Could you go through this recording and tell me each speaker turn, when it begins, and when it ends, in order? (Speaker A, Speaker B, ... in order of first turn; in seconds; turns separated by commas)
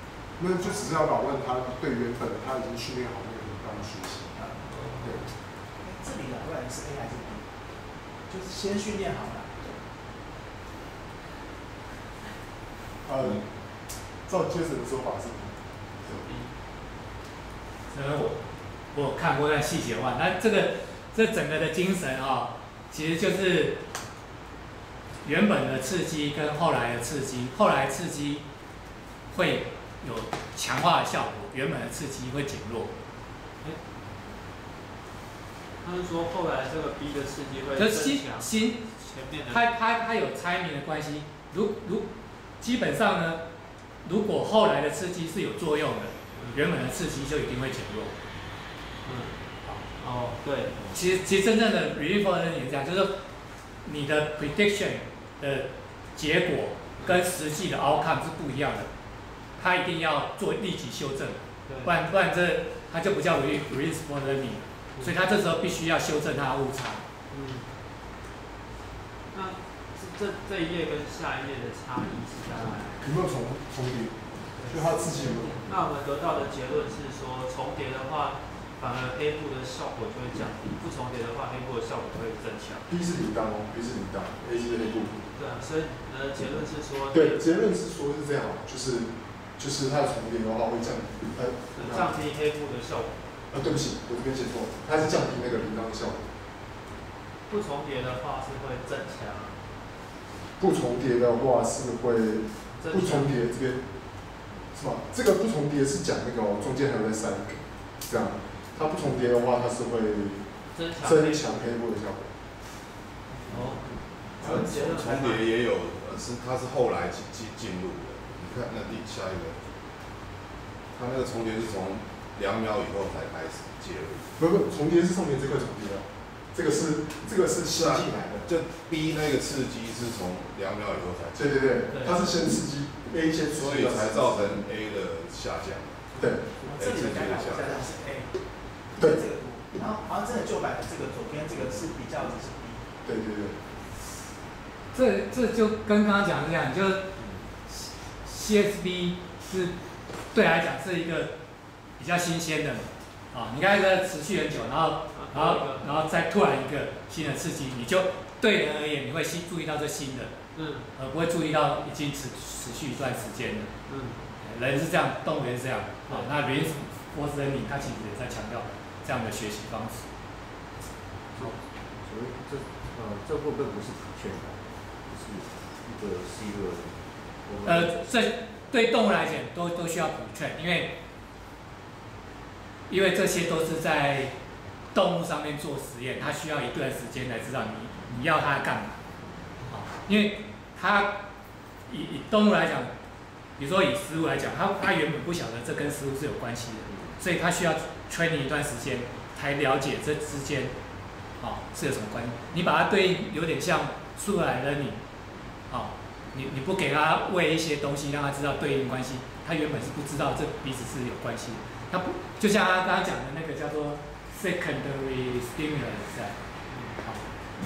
Speaker A: 0.4-4.4, Speaker B: 4.6-5.3, Speaker C: 5.8-7.5, Speaker C: 8.3-9.8, Speaker A: 13.0-13.4, Speaker A: 14.3-16.2, Speaker B: 16.2-16.5, Speaker D: 17.9-18.4, Speaker D: 18.9-23.8, Speaker D: 25.2-28.4, Speaker D: 29.3-32.9, Speaker B: 35.8-39.6, Speaker D: 37.8-38.9, Speaker D: 39.4-42.1, Speaker D: 42.6-43.4, Speaker D: 44.0-48.2, Speaker B: 46.4-46.6, Speaker B: 49.0-49.4, Speaker B: 50.0-50.9, Speaker D: 50.9-53.2, Speaker D: 53.8-58.9, Speaker B: 57.0-57.2, Speaker D: 59.6-67.0, Speaker B: 61.7-61.9, Speaker B: 67.3-67.7, Speaker B: 69.3-73.0, Speaker A: 73.0-75.7, Speaker B: 74.5-82.9, Speaker A: 82.9-85.2, Speaker B: 85.3-87.4, Speaker A: 87.1-92.1, Speaker B: 91.7-93.2, Speaker A: 93.5-96.3, Speaker B: 97.5-99.6, Speaker A: 100.6-103.8, Speaker B: 102.8-103.3, Speaker A: 104.7-110.5, Speaker B: 110.7-111.7, Speaker A: 111.0-112.3, Speaker B: 113.3-115.5, Speaker E: 113.5-113.8, Speaker E: 114.4-119.6, Speaker E: 120.9-124.3, Speaker A: 124.4-128.5, Speaker E: 127.2-131.5, Speaker A: 131.3-134.6, Speaker B: 131.9-132.3, Speaker E: 133.5-138.0, Speaker A: 136.2-136.4, Speaker C: 136.6-138.3, Speaker C: 138.9-142.8, Speaker A: 143.0-143.6, Speaker D: 144.9-147.1, Speaker F: 147.2-147.5, Speaker D: 148.2-149.7, Speaker D: 150.3-151.3, Speaker D: 152.0-160.3, Speaker B: 155.1-156.0, Speaker B: 160.5-160.9, Speaker D: 160.9-163.7, Speaker B: 163.9-164.3, Speaker D: 164.4-170.0, Speaker F: 171.4-178.0, Speaker D: 177.6-181.0, Speaker D: 182.9-184.3, Speaker D: 184.9-189.0, Speaker D: 189.7-191.3, Speaker D: 191.9-192.9, Speaker D: 193.6-200.7, Speaker F: 196.9-197.2, Speaker D: 201.4-205.0, Speaker D: 205.7-216.4, Speaker B: 216.7-217.0, Speaker D: 217.0-217.2